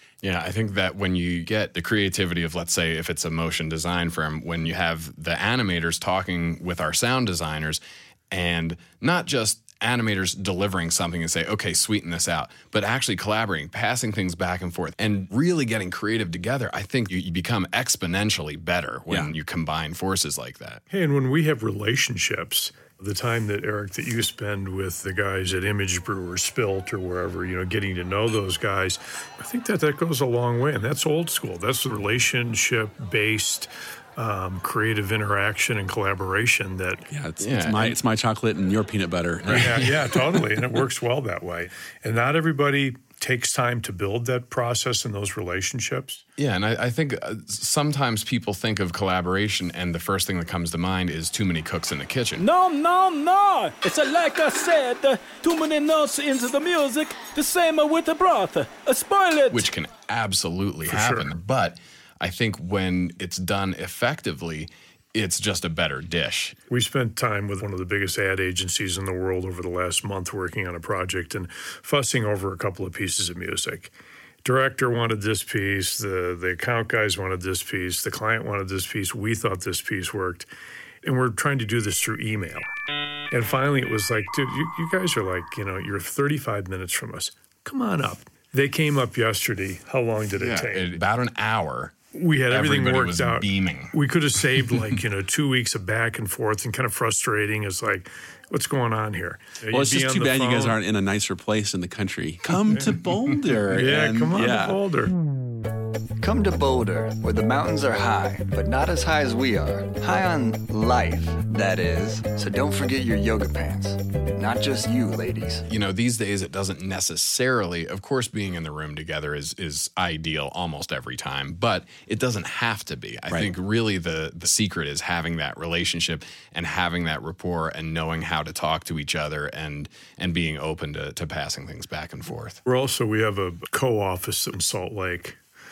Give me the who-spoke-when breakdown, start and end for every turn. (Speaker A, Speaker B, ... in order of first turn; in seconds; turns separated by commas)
Speaker A: 0.2-20.8, Speaker B: 20.9-37.1, Speaker C: 37.1-40.6, Speaker A: 37.4-38.0, Speaker A: 39.4-39.7, Speaker B: 39.5-46.2, Speaker A: 46.4-52.5, Speaker D: 52.4-59.7, Speaker A: 59.5-66.6, Speaker B: 60.9-61.3, Speaker B: 66.7-73.9, Speaker B: 74.4-80.5, Speaker B: 81.0-82.7, Speaker B: 83.3-90.9, Speaker A: 90.3-91.9, Speaker B: 92.1-100.8, Speaker A: 92.5-93.9, Speaker C: 99.7-104.8, Speaker B: 102.7-103.0, Speaker B: 103.7-105.1, Speaker E: 106.2-115.6, Speaker A: 115.7-132.6, Speaker B: 132.7-135.4